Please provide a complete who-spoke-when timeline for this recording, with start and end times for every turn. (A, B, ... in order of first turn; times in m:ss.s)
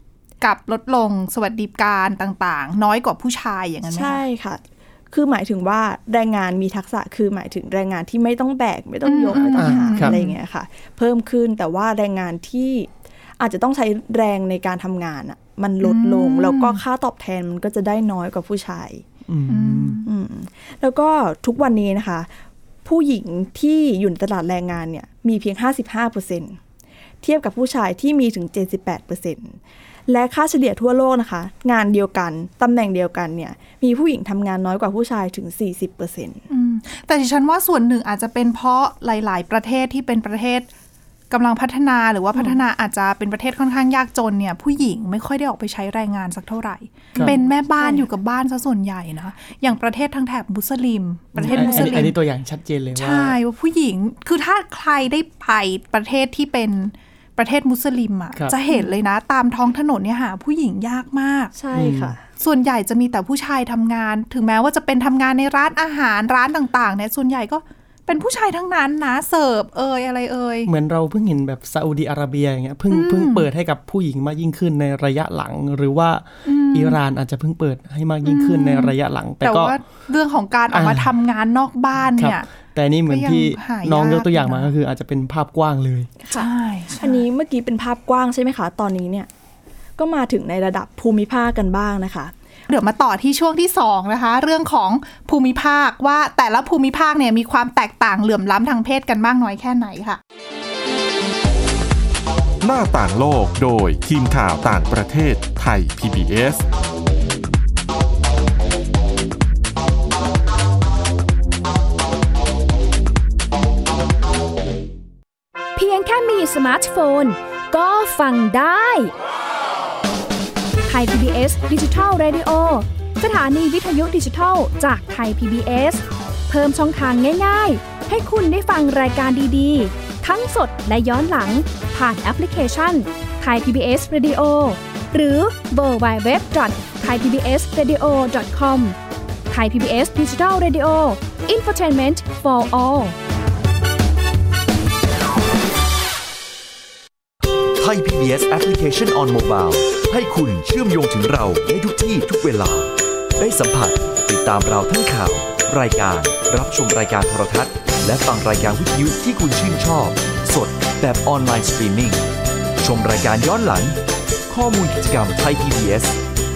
0:00.4-0:04.2 A
0:03.9-0:19.0 B
0:09.0-0:10.3 A
0:09.6-0:10.1 C
0:15.8-0:16.8 A
0:19.3-0:20.0 C
0:19.5-0:20.0 A
0:20.0-0:22.3 B
0:22.8-0:26.6 B
0:27.2-0:36.4 B
0:36.5-0:40.7 A
0:41.3-0:52.1 A
0:47.1-0:48.0 B
0:51.4-0:53.4 C
0:51.4-0:52.1 B
0:53.0-1:01.5 A
1:01.5-1:02.2 B
1:01.7-1:02.1 C
1:02.4-1:10.7 A
1:10.6-1:19.8 C
1:12.9-1:13.4 A
1:16.4-1:17.0 A
1:18.2-1:22.5 A
1:20.7-1:21.1 C
1:22.2-1:26.1 C
1:23.1-1:24.7 A
1:26.2-1:29.3 B
1:26.3-1:27.2 A
1:30.0-1:32.3 B
1:32.7-1:40.2 A
1:42.6-1:46.6 D
1:55.8-1:59.1 E
2:00.9-2:19.0 E
2:19.5-2:23.2 E
2:27.8-2:42.2 F
2:42.8-2:46.2 F